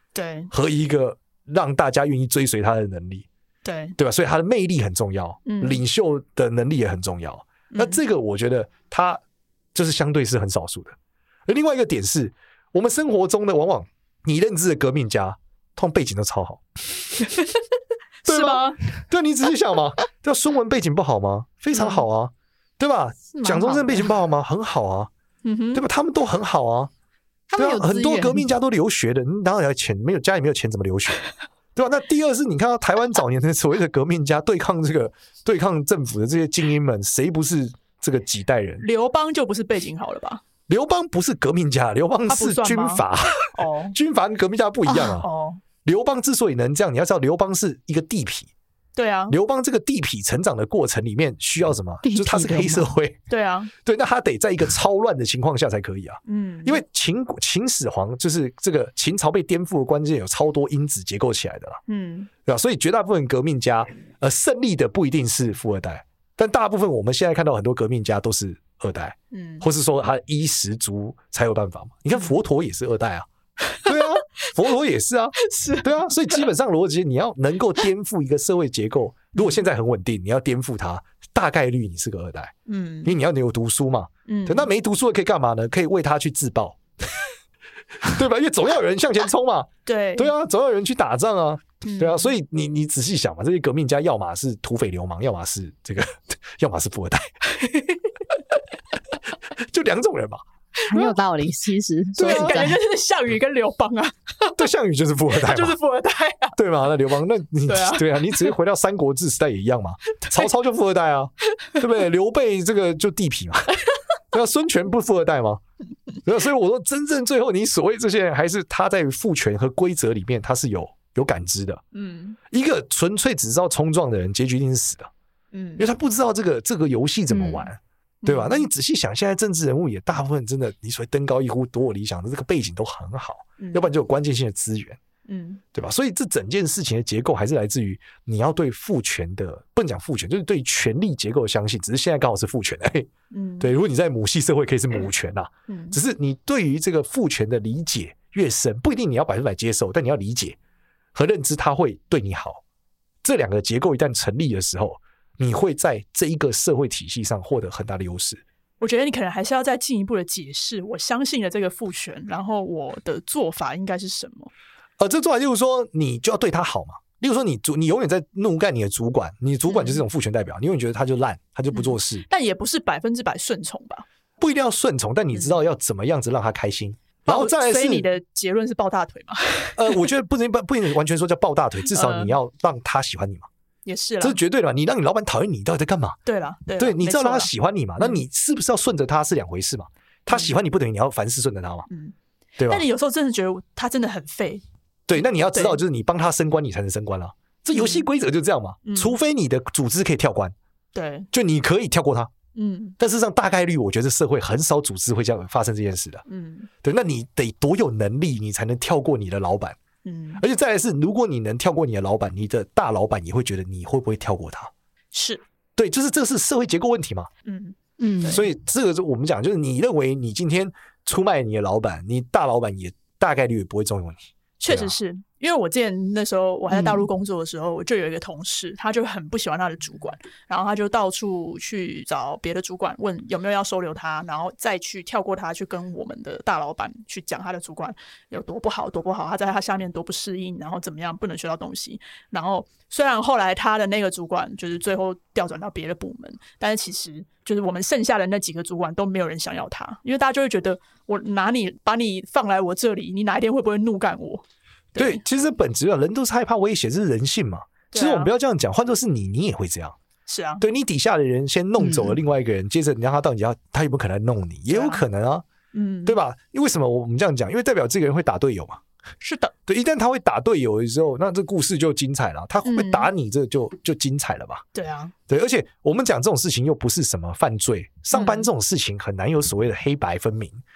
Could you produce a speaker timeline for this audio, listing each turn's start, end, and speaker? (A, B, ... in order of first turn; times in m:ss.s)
0:00.1-0:00.5 A
0:00.5-0:03.3 B
0:03.6-0:04.0 A
0:04.0-0:09.2 B
0:05.5-0:05.8 A
0:07.7-0:08.0 A
0:09.7-0:11.0 B
0:11.5-0:17.1 B
0:17.2-0:17.6 A
0:18.2-0:18.9 A
0:18.3-0:25.1 B
0:21.7-0:22.0 A
0:23.3-0:24.1 C
0:25.4-0:25.8 A
0:25.7-0:26.9 B
0:27.5-0:28.5 C
0:27.6-0:31.2 B
0:31.8-0:38.9 B
0:38.8-0:40.4 A
0:40.7-0:45.3 B
0:42.3-0:44.0 A
0:44.9-0:45.2 C
0:45.2-0:45.6 A
0:45.8-0:48.5 B
0:49.0-0:49.4 A
0:49.3-0:53.2 B
0:52.0-0:52.9 C
0:53.3-0:53.7 A
0:53.8-1:01.8 B
0:56.3-0:56.8 A
1:01.9-1:02.3 A
1:02.4-1:13.3 B
1:09.3-1:09.6 A
1:13.8-1:27.3 B
1:15.4-1:16.4 A
1:19.4-1:19.6 A
1:22.7-1:23.2 A
1:24.3-1:24.7 A
1:28.0-1:37.3 B
1:29.9-1:30.3 A
1:31.8-1:32.3 A
1:37.5-1:38.0 A
1:39.5-1:40.4 B
1:40.8-1:41.2 A
1:40.9-1:42.8 C
1:42.2-1:44.6 A
1:42.2-1:42.7 B
1:44.6-1:45.8 B
1:45.4-1:46.6 A
1:46.6-1:55.6 B
1:47.6-1:48.5 A
1:56.2-2:01.8 B
2:01.9-2:02.4 A
2:02.5-2:05.1 B
2:05.5-2:05.9 A
2:05.8-2:15.0 B
2:07.3-2:07.7 C
2:08.2-2:08.7 A
2:13.6-2:13.9 A
2:15.3-2:15.6 A
2:15.7-2:23.1 B
2:23.3-2:23.7 A
2:23.6-2:30.6 B
2:25.7-2:26.0 A
2:31.1-2:32.6 B
2:33.2-2:38.4 B
2:38.8-2:44.5 A
2:45.0-2:52.3 B
2:49.7-2:50.0 A
2:51.7-2:54.0 A
2:54.4-2:58.1 B
2:55.3-2:55.6 A
2:57.3-3:00.0 A
2:59.8-3:03.5 B
3:01.9-3:02.3 A
3:03.8-3:04.4 A
3:04.2-3:06.2 B
3:06.2-3:08.2 A
3:06.8-3:11.9 B
3:11.9-3:12.2 A
3:12.6-3:12.9 B
3:12.7-3:14.6 A
3:15.1-3:20.6 B
3:15.5-3:15.8 A
3:17.7-3:18.1 A
3:18.8-3:19.2 A
3:20.9-3:21.3 A
3:21.3-3:22.3 B
3:22.6-3:23.0 A
3:23.0-3:26.2 B
3:26.3-3:26.7 A
3:26.8-3:29.8 B
3:30.0-3:30.4 A
3:30.4-3:34.7 B
3:35.1-3:35.4 A
3:35.8-3:37.3 B
3:37.4-3:38.4 A
3:38.0-3:38.4 C
3:38.3-3:45.0 B
3:44.6-4:15.2 A
3:46.7-3:47.1 C
4:15.0-4:20.0 B
4:17.9-4:18.3 A
4:20.3-4:20.6 A
4:20.6-4:25.4 B
4:21.8-4:22.2 C
4:24.7-4:25.0 A
4:25.7-4:26.2 A
4:26.1-4:28.8 B
4:29.2-4:29.5 A
4:29.7-4:34.7 B
4:32.6-4:33.1 A
4:34.8-4:35.1 A
4:35.3-4:40.6 B
4:38.1-4:38.5 A